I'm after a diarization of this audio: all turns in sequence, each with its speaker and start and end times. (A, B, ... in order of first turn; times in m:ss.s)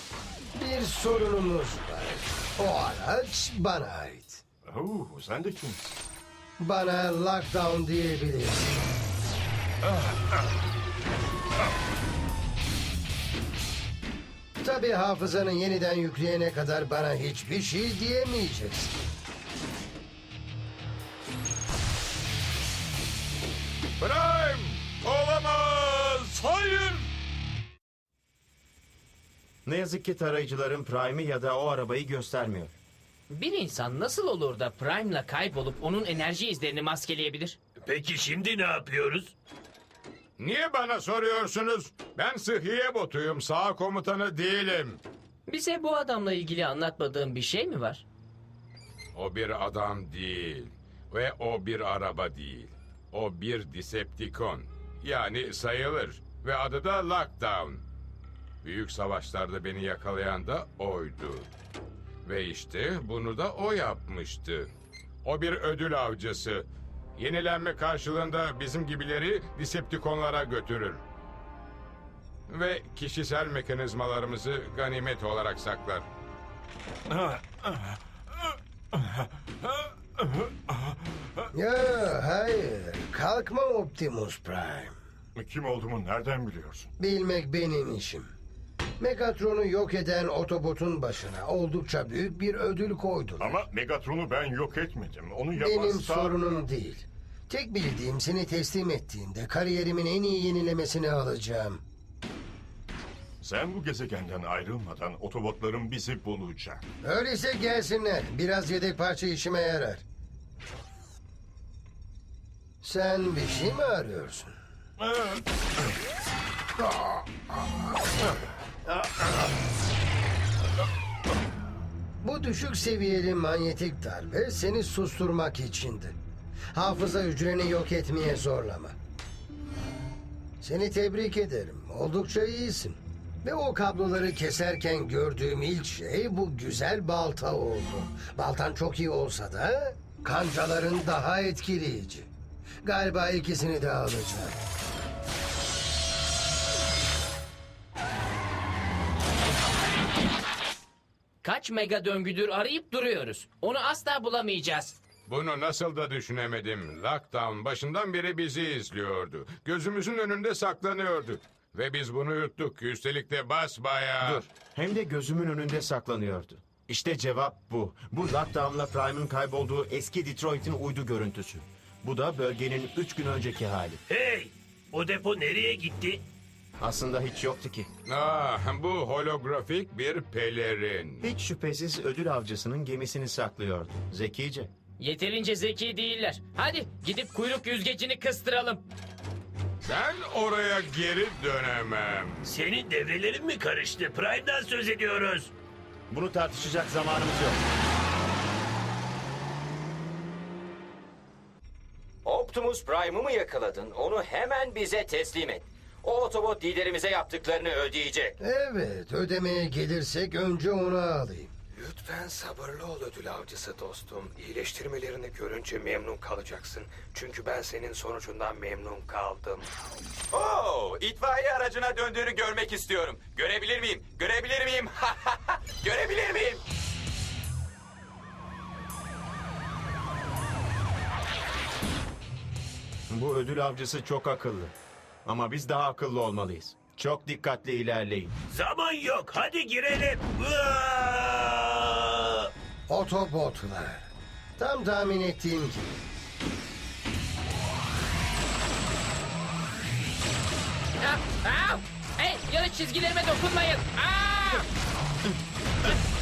0:00.6-0:04.4 A
0:04.7-0:06.0 B
0:06.6-0:08.9 A
0:09.8-0:10.3 B
0:14.6-0:19.0 A
0:24.0-0:27.1 C
0:29.7-0:32.8 D
0:33.3-0:37.6 E
0:37.8-0:39.4 F
0:40.4-0:45.0 C
0:45.5-0:48.0 E
0:49.1-0:57.8 C
0:58.6-1:01.5 C
1:02.2-1:04.7 C
1:05.2-1:11.0 C
1:12.5-1:16.1 C
1:17.1-1:21.4 B
1:21.5-1:24.9 A
1:25.4-1:26.9 B
1:27.0-1:28.3 A
1:29.0-1:33.6 A
1:33.4-1:36.4 B
1:35.5-1:41.8 A
1:43.4-1:46.8 B
1:47.0-1:50.0 A
1:52.8-1:54.6 A
1:55.1-1:55.4 B
1:59.0-1:59.3 A
2:02.2-2:06.2 A
2:06.7-2:09.0 A
2:10.6-2:22.3 A
2:22.8-2:24.6 A
2:31.4-2:35.0 E
2:35.3-2:44.4 C
2:44.2-2:54.0 D
2:54.1-2:56.2 F
2:56.8-2:57.9 D
2:58.1-3:01.2 C
3:01.2-3:04.7 D
3:05.0-3:08.8 E
3:09.8-3:12.4 C
3:12.4-3:15.5 F
3:16.1-3:17.6 D
3:22.2-3:28.4 G
3:28.4-3:31.5 A
3:31.7-3:39.7 H
3:40.3-3:46.6 G
3:53.1-3:54.7 D
3:55.2-3:58.3 D
3:58.5-4:02.5 F
4:02.9-4:06.0 A
4:11.0-4:14.7 E